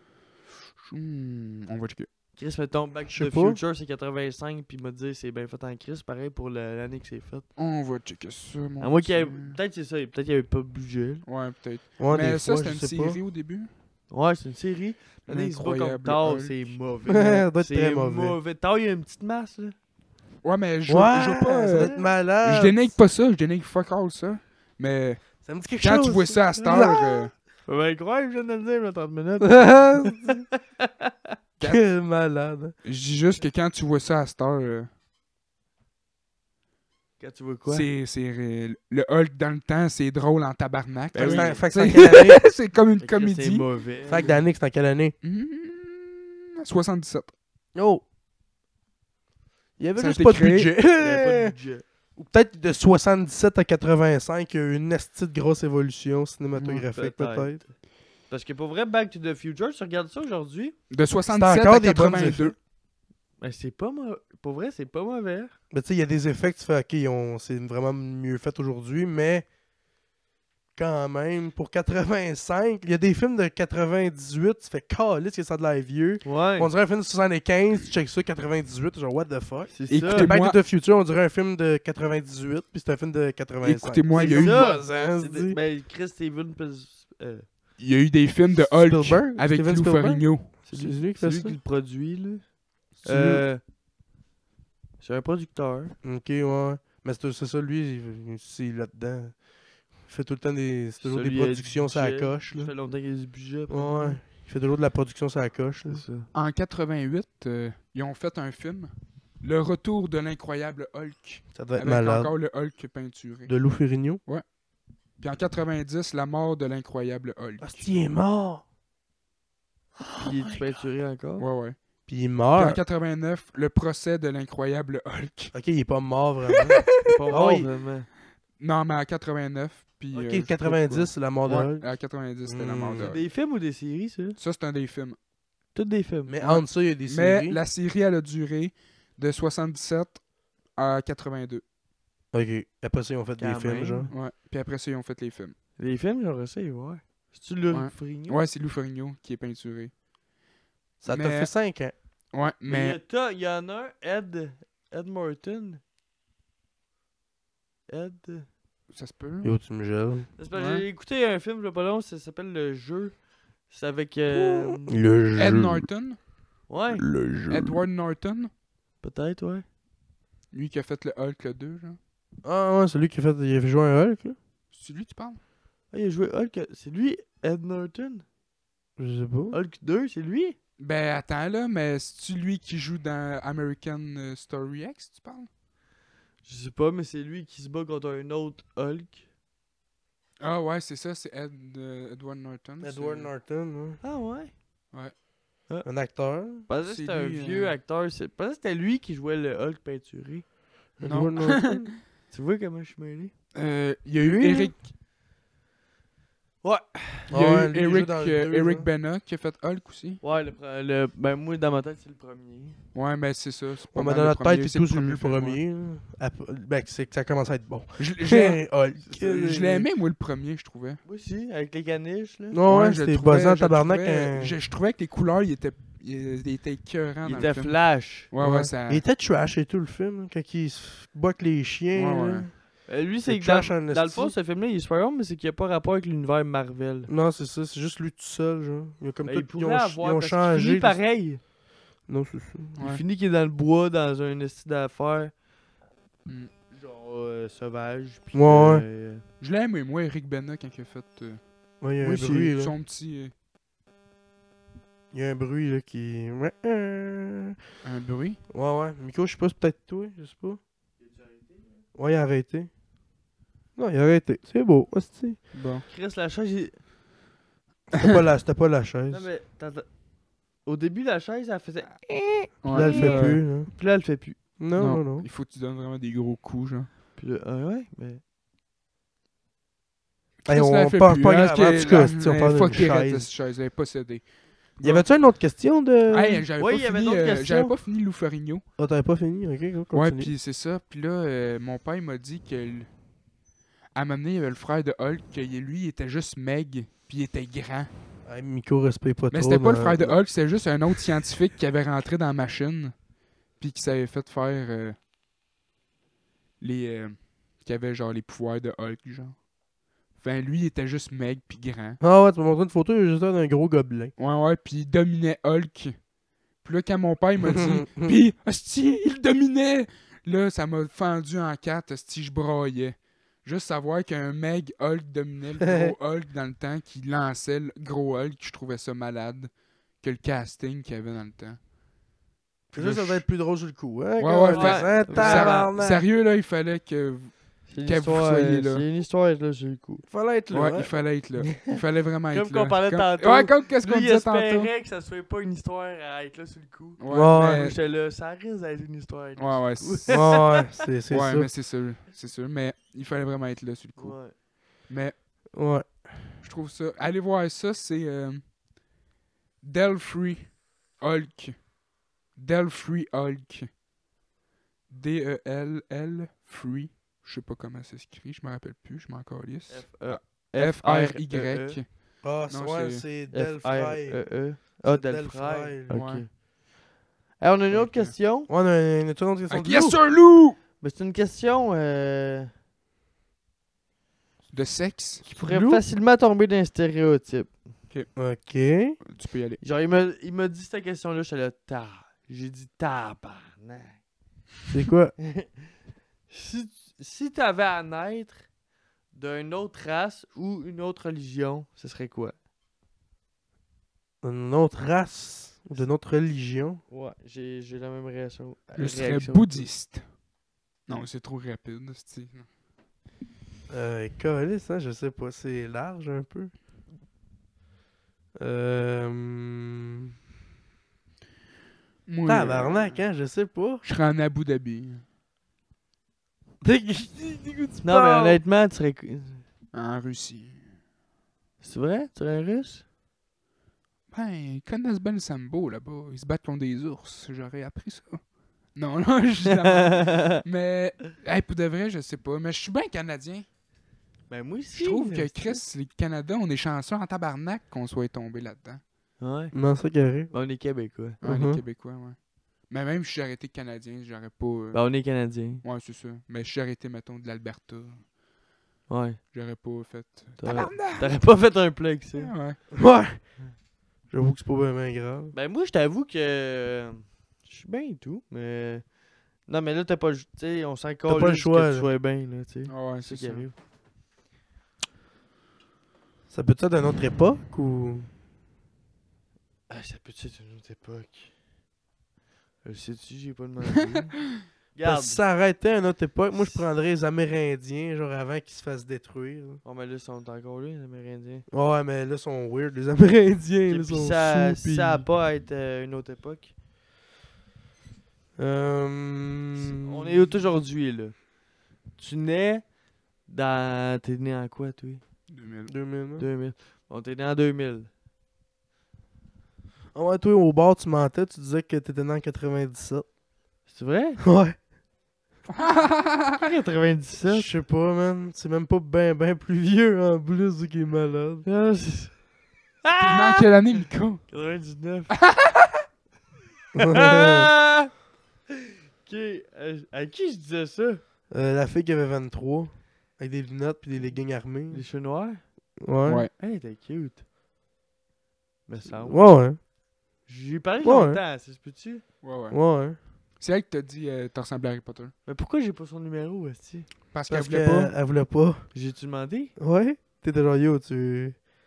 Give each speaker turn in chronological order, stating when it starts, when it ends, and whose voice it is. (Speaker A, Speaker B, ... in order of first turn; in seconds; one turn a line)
Speaker A: 0.8-2.1
Speaker B: 2.4-7.5
Speaker C: 3.1-3.6
Speaker A: 7.6-9.6
Speaker B: 8.8-11.2
Speaker A: 11.2-13.7
Speaker C: 12.0-13.2
Speaker B: 14.1-19.8
Speaker A: 15.3-16.8
Speaker C: 17.1-18.4
Speaker A: 20.4-27.3
Speaker C: 20.9-22.9
Speaker B: 21.8-22.1
Speaker C: 25.4-27.1
Speaker B: 26.6-27.0
Speaker B: 27.7-31.1
Speaker C: 29.4-30.4
Speaker C: 31.6-32.7
Speaker A: 32.8-34.9
Speaker B: 37.2-37.9
Speaker A: 37.7-43.7
Speaker B: 41.1-41.7
Speaker C: 41.1-42.4
Speaker B: 43.0-44.4
Speaker C: 44.1-45.2
Speaker A: 45.2-47.3
Speaker C: 47.8-48.0
Speaker C: 49.8-51.5
Speaker A: 50.0-50.7
Speaker B: 51.0-51.8
Speaker C: 52.2-57.6
Speaker B: 56.6-57.7
Speaker B: 58.3-60.8
Speaker A: 60.9-62.5
Speaker C: 61.3-62.5
Speaker B: 63.4-65.5
Speaker C: 65.7-69.5
Speaker C: 70.8-85.6
Speaker B: 76.2-76.7
Speaker B: 79.7-80.3
Speaker A: 79.9-80.6
Speaker A: 83.6-84.7
Speaker B: 84.1-87.5
Speaker A: 87.8-90.5
Speaker C: 88.6-91.6
Speaker B: 90.7-93.6
Speaker C: 93.0-93.4
Speaker B: 95.0-95.9
Speaker C: 96.0-99.4
Speaker C: 100.0-102.7
Speaker B: 101.0-104.2
Speaker C: 103.7-106.0
Speaker B: 105.8-106.3
Speaker A: 106.3-113.5
Speaker C: 111.5-112.3
Speaker C: 113.5-114.2
Speaker A: 115.2-117.8
Speaker C: 117.6-118.6
Speaker A: 120.0-120.8
Speaker B: 120.2-121.5
Speaker A: 121.4-121.8
Speaker C: 122.1-122.8
Speaker A: 122.5-125.5
Speaker C: 125.5-127.7
Speaker B: 127.0-128.1
Speaker A: 128.6-130.6
Speaker C: 130.1-131.9
Speaker B: 130.6-131.7
Speaker A: 131.8-133.3
Speaker C: 132.4-133.1
Speaker B: 133.0-134.4
Speaker A: 134.4-135.2
Speaker B: 135.8-136.6
Speaker C: 136.3-137.6
Speaker A: 137.1-141.6
Speaker C: 142.3-144.1
Speaker B: 143.4-144.1
Speaker A: 144.1-145.6
Speaker B: 145.8-148.4
Speaker A: 147.7-149.9
Speaker C: 151.0-151.9
Speaker A: 151.1-151.5
Speaker A: 152.3-153.0
Speaker B: 152.7-155.8
Speaker B: 157.9-158.5
Speaker A: 158.9-159.6
Speaker C: 159.4-160.3
Speaker B: 160.4-163.2
Speaker A: 160.5-160.8
Speaker B: 163.7-165.0
Speaker C: 164.3-165.9
Speaker A: 165.4-166.2
Speaker B: 166.7-167.0
Speaker C: 167.0-167.8
Speaker A: 167.5-168.5
Speaker B: 169.0-169.7
Speaker A: 170.5-172.0
Speaker C: 172.4-174.4
Speaker A: 174.7-175.4
Speaker B: 175.9-178.2
Speaker C: 179.0-179.6
Speaker B: 179.5-180.6
Speaker A: 180.8-185.5
Speaker B: 186.4-189.2
Speaker A: 190.4-193.3
Speaker C: 192.8-194.0
Speaker B: 194.0-194.5
Speaker C: 195.8-196.7
Speaker B: 196.7-200.5
Speaker A: 196.9-197.7
Speaker C: 201.0-201.9
Speaker A: 201.1-201.9
Speaker B: 202.3-203.3
Speaker A: 203.6-204.9
Speaker B: 204.2-204.7
Speaker B: 206.6-207.3
Speaker C: 207.3-208.9
Speaker A: 207.3-210.2
Speaker B: 210.2-212.8
Speaker A: 212.9-215.6
Speaker C: 213.9-219.9
Speaker A: 218.0-221.0
Speaker B: 221.1-222.6
Speaker C: 222.5-224.6
Speaker A: 222.7-229.0
Speaker B: 227.2-228.3
Speaker C: 228.4-232.5
Speaker A: 231.9-232.5
Speaker B: 232.9-237.1
Speaker C: 233.3-234.3
Speaker C: 237.1-241.0
Speaker B: 239.2-241.4
Speaker C: 242.1-242.8
Speaker A: 242.8-243.0
Speaker B: 242.8-245.3
Speaker A: 246.3-246.5
Speaker B: 246.7-249.2
Speaker C: 248.3-248.8
Speaker A: 249.4-251.4
Speaker C: 251.8-252.7
Speaker A: 252.0-253.3
Speaker C: 255.1-257.6
Speaker A: 257.8-258.4
Speaker C: 258.5-260.6
Speaker B: 261.0-261.6
Speaker C: 261.9-262.7
Speaker C: 263.8-265.4
Speaker A: 265.5-265.9
Speaker B: 265.9-266.8
Speaker C: 267.9-269.3
Speaker B: 269.1-269.9
Speaker B: 270.6-274.4
Speaker A: 272.6-273.4
Speaker C: 272.7-273.7
Speaker C: 274.6-275.3
Speaker A: 274.8-276.9
Speaker B: 277.2-278.2
Speaker A: 280.4-284.3
Speaker C: 280.5-283.3
Speaker A: 284.8-285.1
Speaker C: 284.8-286.4
Speaker A: 286.1-288.6
Speaker B: 286.6-287.7
Speaker C: 288.8-290.3
Speaker A: 289.9-292.9
Speaker A: 294.0-297.9
Speaker C: 298.3-300.2
Speaker A: 299.3-302.9
Speaker A: 303.6-305.0
Speaker A: 306.6-309.4
Speaker A: 310.1-312.0
Speaker C: 312.0-314.1
Speaker A: 314.2-316.0
Speaker A: 316.6-331.6
Speaker C: 317.4-318.1
Speaker C: 325.6-325.9
Speaker C: 332.7-336.1
Speaker B: 332.8-333.2
Speaker A: 334.2-338.9
Speaker B: 334.5-335.7
Speaker B: 337.7-340.1
Speaker C: 340.1-340.9
Speaker A: 340.5-344.7
Speaker B: 342.3-350.7
Speaker A: 347.0-347.8
Speaker C: 347.1-347.7
Speaker A: 349.4-350.2
Speaker C: 350.1-351.5
Speaker A: 351.1-354.3
Speaker B: 354.0-354.4
Speaker A: 354.9-355.2
Speaker C: 355.5-356.1
Speaker A: 356.4-358.5
Speaker A: 359.6-361.7
Speaker A: 362.3-363.7
Speaker A: 364.9-373.0
Speaker B: 369.7-371.8
Speaker C: 372.2-376.0
Speaker B: 373.3-376.4
Speaker A: 375.9-376.3
Speaker B: 377.4-378.5
Speaker A: 377.7-378.1
Speaker C: 378.5-380.0
Speaker A: 379.5-380.6
Speaker B: 380.8-382.5
Speaker A: 384.5-385.2
Speaker B: 385.2-387.5
Speaker C: 385.4-385.8
Speaker C: 388.2-389.0
Speaker A: 389.1-389.6
Speaker B: 389.6-394.0
Speaker C: 394.7-395.1
Speaker B: 395.2-395.6
Speaker B: 396.3-398.4
Speaker B: 399.1-402.4
Speaker C: 404.2-406.8
Speaker B: 406.9-409.7
Speaker A: 408.8-410.1
Speaker A: 410.9-412.5
Speaker C: 413.7-416.5
Speaker C: 418.4-420.1
Speaker A: 422.1-423.0
Speaker C: 422.3-423.8
Speaker A: 423.8-425.0
Speaker C: 426.6-428.4
Speaker B: 427.8-429.4
Speaker A: 429.7-430.6
Speaker B: 431.6-432.8
Speaker A: 434.1-438.2
Speaker A: 438.8-443.5
Speaker B: 439.5-440.4
Speaker B: 444.3-445.6
Speaker A: 444.8-448.8
Speaker B: 449.2-449.5
Speaker C: 449.5-450.3
Speaker B: 450.3-451.2
Speaker C: 451.2-451.6
Speaker A: 451.2-452.2
Speaker A: 452.7-454.9
Speaker B: 454.7-455.6
Speaker A: 455.6-458.1
Speaker B: 458.9-459.2
Speaker A: 459.3-461.2
Speaker B: 460.4-462.3
Speaker A: 462.2-462.6
Speaker C: 462.7-463.2
Speaker C: 464.1-465.3
Speaker B: 465.3-468.9
Speaker B: 469.5-473.5
Speaker C: 471.1-471.9
Speaker A: 472.7-473.5
Speaker C: 476.3-478.1
Speaker B: 479.7-481.3
Speaker B: 482.6-484.2
Speaker B: 484.7-485.2
Speaker C: 484.8-489.6
Speaker B: 489.6-491.5
Speaker C: 491.5-495.1
Speaker B: 493.7-496.5
Speaker C: 498.4-500.3
Speaker B: 499.6-501.3
Speaker B: 502.0-502.7
Speaker B: 503.3-505.0
Speaker A: 505.3-505.7
Speaker C: 505.7-506.3
Speaker B: 506.2-507.9
Speaker C: 509.9-513.1
Speaker B: 513.7-514.2
Speaker C: 514.2-514.6
Speaker A: 515.5-516.5
Speaker B: 516.4-517.5
Speaker C: 517.3-521.5
Speaker B: 521.5-522.2
Speaker B: 522.8-523.5
Speaker A: 523.0-524.3
Speaker B: 524.3-525.1
Speaker A: 525.2-525.8
Speaker C: 526.8-527.5
Speaker B: 526.8-527.9
Speaker B: 529.0-531.0
Speaker C: 531.3-534.8
Speaker B: 534.7-535.4
Speaker C: 535.8-536.3
Speaker B: 536.4-537.2
Speaker B: 538.7-539.3
Speaker C: 538.9-539.6
Speaker B: 540.3-542.0
Speaker C: 540.8-541.2
Speaker A: 542.2-542.6
Speaker C: 542.5-543.0
Speaker A: 543.4-545.1
Speaker B: 545.3-546.9
Speaker A: 547.1-547.9
Speaker C: 547.3-548.7
Speaker B: 548.7-549.5
Speaker C: 549.6-551.4